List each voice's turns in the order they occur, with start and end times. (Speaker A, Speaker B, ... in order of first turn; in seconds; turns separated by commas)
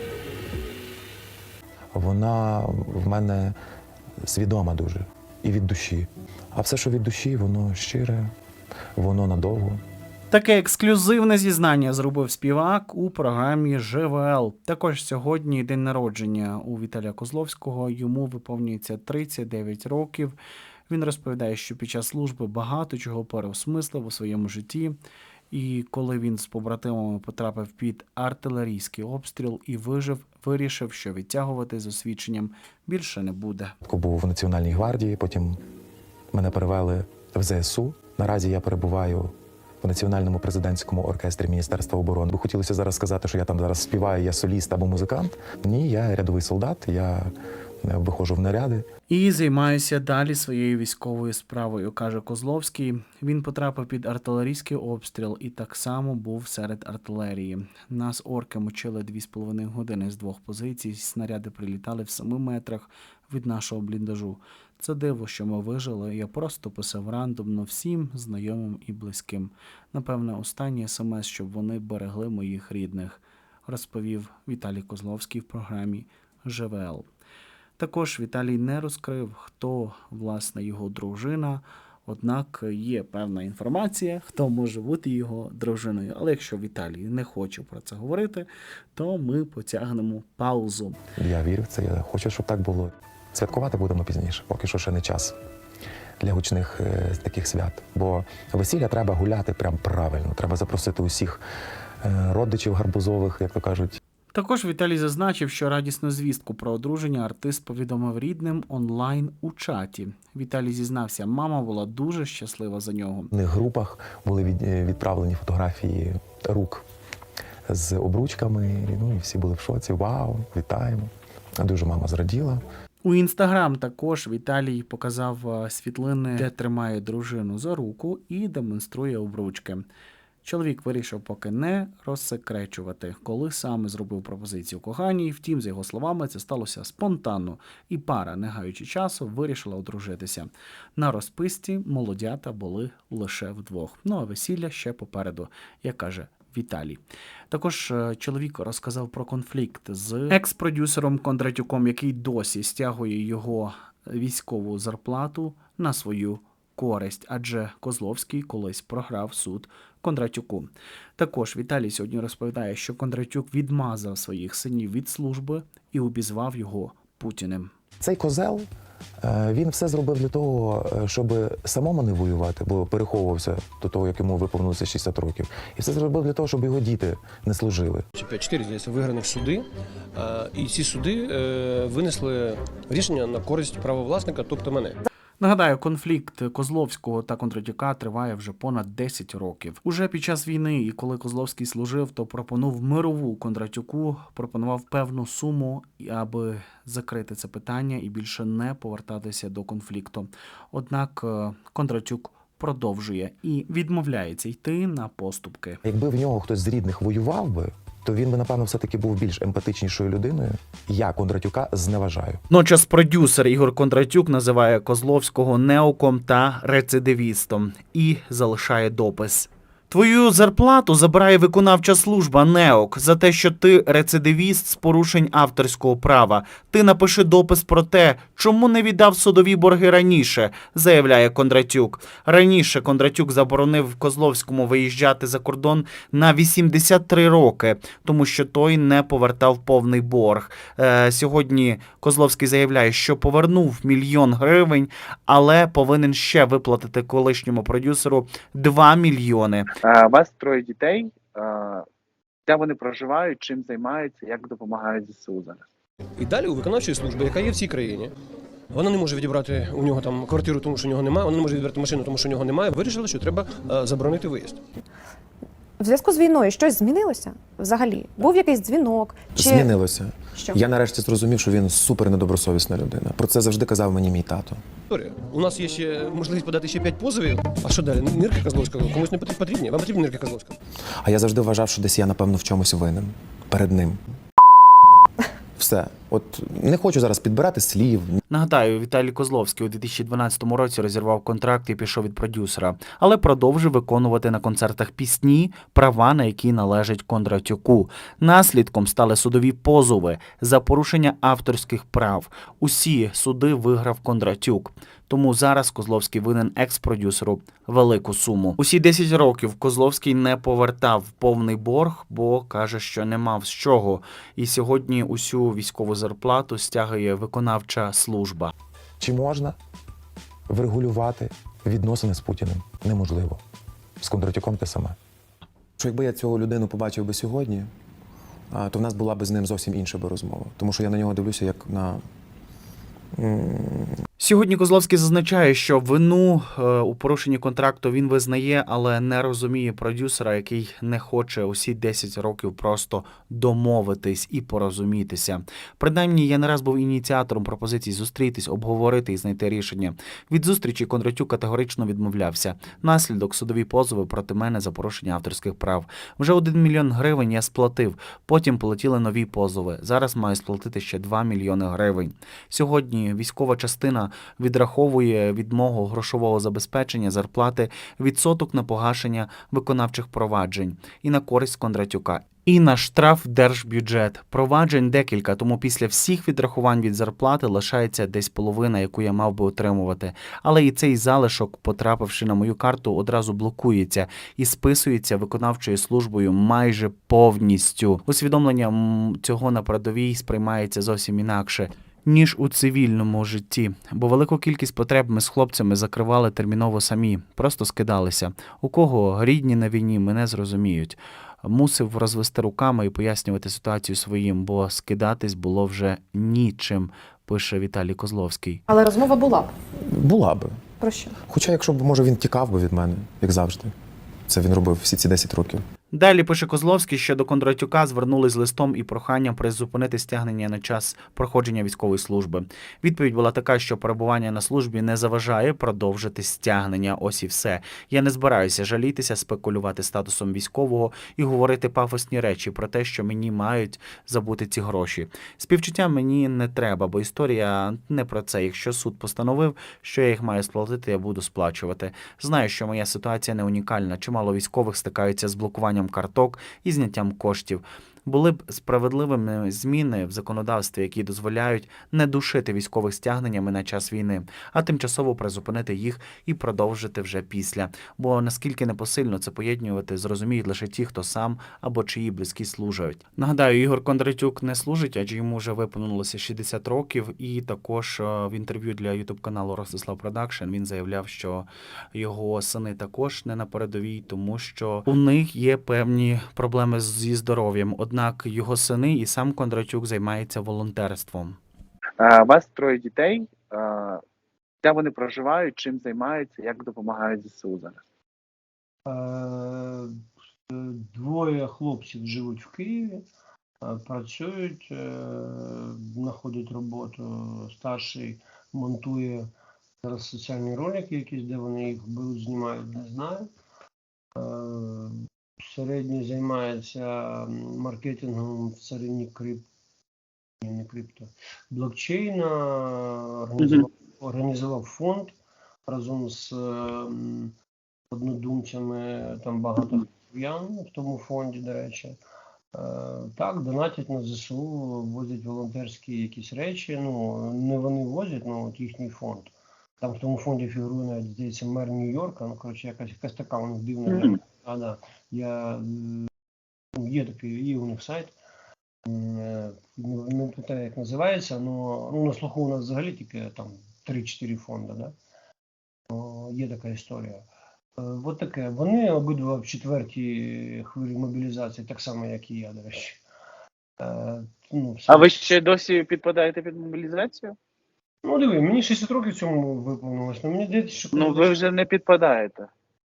Speaker A: 1.9-3.6, Speaker A: 4.2-8.3, Speaker A: 9.0-9.8, Speaker B: 10.3-20.4, Speaker B: 20.9-25.0, Speaker B: 25.5-33.8, Speaker A: 33.8-35.6, Speaker A: 36.3-47.3, Speaker A: 47.8-48.9, Speaker B: 49.1-77.0, Speaker B: 77.8-91.0, Speaker A: 91.2-95.3, Speaker A: 96.2-101.4, Speaker A: 102.0-104.0, Speaker B: 104.3-113.3, Speaker A: 113.3-116.8, Speaker A: 117.7-122.6, Speaker B: 123.0-129.8, Speaker B: 130.4-167.7, Speaker A: 168.0-168.7, Speaker A: 169.2-178.1, Speaker C: 178.2-185.0, Speaker B: 185.4-205.8, Speaker A: 205.8-212.4, Speaker B: 212.5-249.7, Speaker D: 249.8-251.8, Speaker D: 252.5-255.6, Speaker C: 256.2-258.1, Speaker C: 258.7-264.6, Speaker E: 265.8-269.7, Speaker A: 269.4-274.6, Speaker C: 274.9-280.6, Speaker A: 281.0-284.0, Speaker A: 285.6-288.1, Speaker B: 288.3-318.5, Speaker A: 319.0-319.6, Speaker A: 320.5-323.4, Speaker A: 324.0-325.0, Speaker A: 325.8-327.7, Speaker A: 328.5-332.0, Speaker A: 333.2-333.9, Speaker B: 334.2-408.6, Speaker E: 408.7-409.5, Speaker A: 409.9-410.6, Speaker E: 410.8-411.2, Speaker A: 411.2-413.7, Speaker A: 414.3-415.6, Speaker B: 415.9-481.4, Speaker D: 482.0-484.0, Speaker D: 484.6-487.8, Speaker F: 488.9-489.9, Speaker F: 490.5-493.0, Speaker F: 493.6-499.3, Speaker F: 499.8-503.3, Speaker F: 504.2-509.4, Speaker F: 510.4-515.1, Speaker F: 515.7-517.3, Speaker F: 517.9-522.0, Speaker F: 522.5-536.1, Speaker F: 536.8-538.1, Speaker F: 538.9-544.9, Speaker F: 545.9-547.2, Speaker F: 547.8-553.0, Speaker F: 553.8-555.4, Speaker D: 554.9-557.4, Speaker F: 558.0-561.4, Speaker D: 560.9-562.5